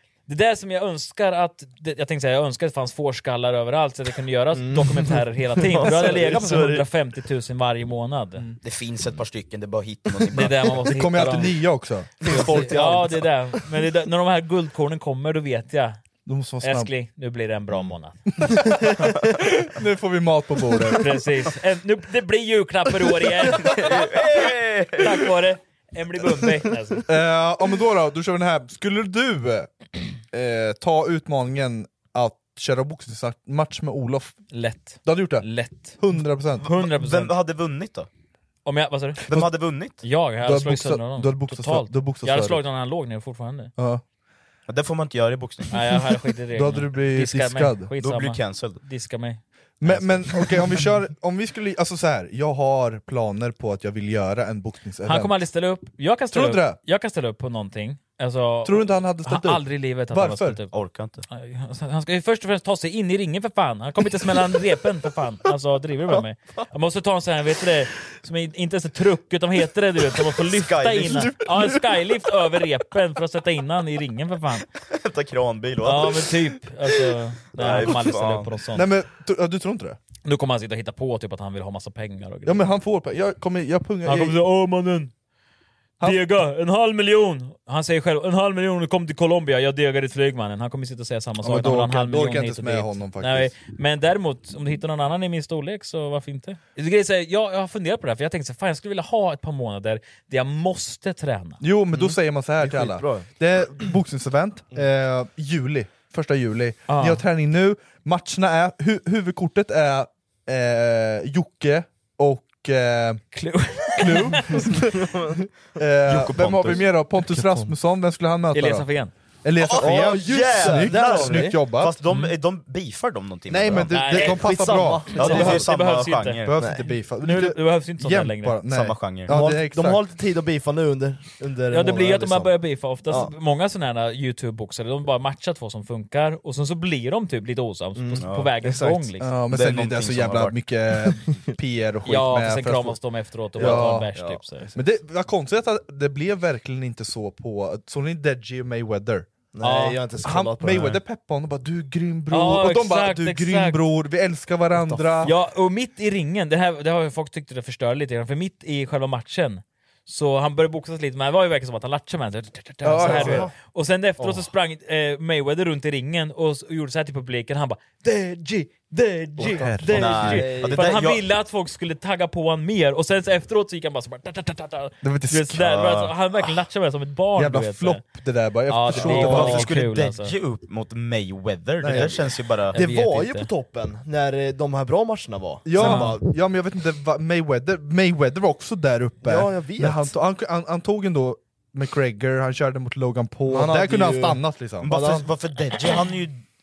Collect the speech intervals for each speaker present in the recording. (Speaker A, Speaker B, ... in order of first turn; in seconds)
Speaker A: 0.3-8.5, 10.3-11.6, 12.2-16.0, 16.6-18.2, 21.0-24.1, 25.0-27.1, 34.5-36.0, 36.6-37.3, 38.7-39.3, 40.0-43.7, 45.7-50.5, 55.1-60.8, 61.3-74.7, 75.8-78.8, 80.2-82.7, 84.0-85.1, 86.0-101.6, 106.9-107.2, 113.3-114.7, 118.5-119.1, 123.9-128.6, 131.7-139.3, 142.1-144.7, 149.6-150.0, 152.3-153.8, 155.2-167.9, 169.4-178.0, 178.7-180.3, 182.7-183.5, 185.8-186.1
Speaker B: 4.5-6.9, 12.2-13.3, 102.0-103.3, 117.4-117.7, 119.8-121.6, 124.1-125.7, 126.6-126.9, 129.3-133.3, 138.0-139.1, 143.6-144.8, 149.5-151.0, 154.8-155.3, 163.0-163.5, 164.2-164.5, 168.0-170.9, 179.0-179.5, 182.7-186.3, 189.2-190.1, 193.5-195.3
Speaker C: 8.6-10.7, 23.8-25.1, 36.7-38.1, 39.3-40.0, 44.7-45.7, 48.0-48.8, 60.7-61.2, 70.5-71.3, 74.9-76.2, 77.6-78.5, 116.1-116.9, 119.6-124.2, 125.2-126.5, 128.7-129.4, 138.2-138.5, 139.5-140.6, 169.9-171.2, 179.0-182.8, 194.8-196.4
Speaker D: 10.8-13.0, 16.3-16.9, 18.4-21.1, 27.1-29.7, 30.3-34.4, 35.0-35.5, 36.0-36.7, 40.4-42.6, 43.8-44.0, 46.5-47.9, 49.8-55.4, 56.3-56.8, 58.6-60.6, 78.7-80.0, 82.5-84.4, 91.4-93.5, 101.6-113.2, 114.0-115.2, 115.8-118.9, 119.4-122.0, 123.5-125.6, 126.5-130.0, 139.2-143.0, 143.6-144.1, 144.8-149.3, 150.2-155.3, 162.8-163.5, 169.4-170.5, 175.0-176.2, 177.4-179.7, 181.8-182.2, 185.7-195.2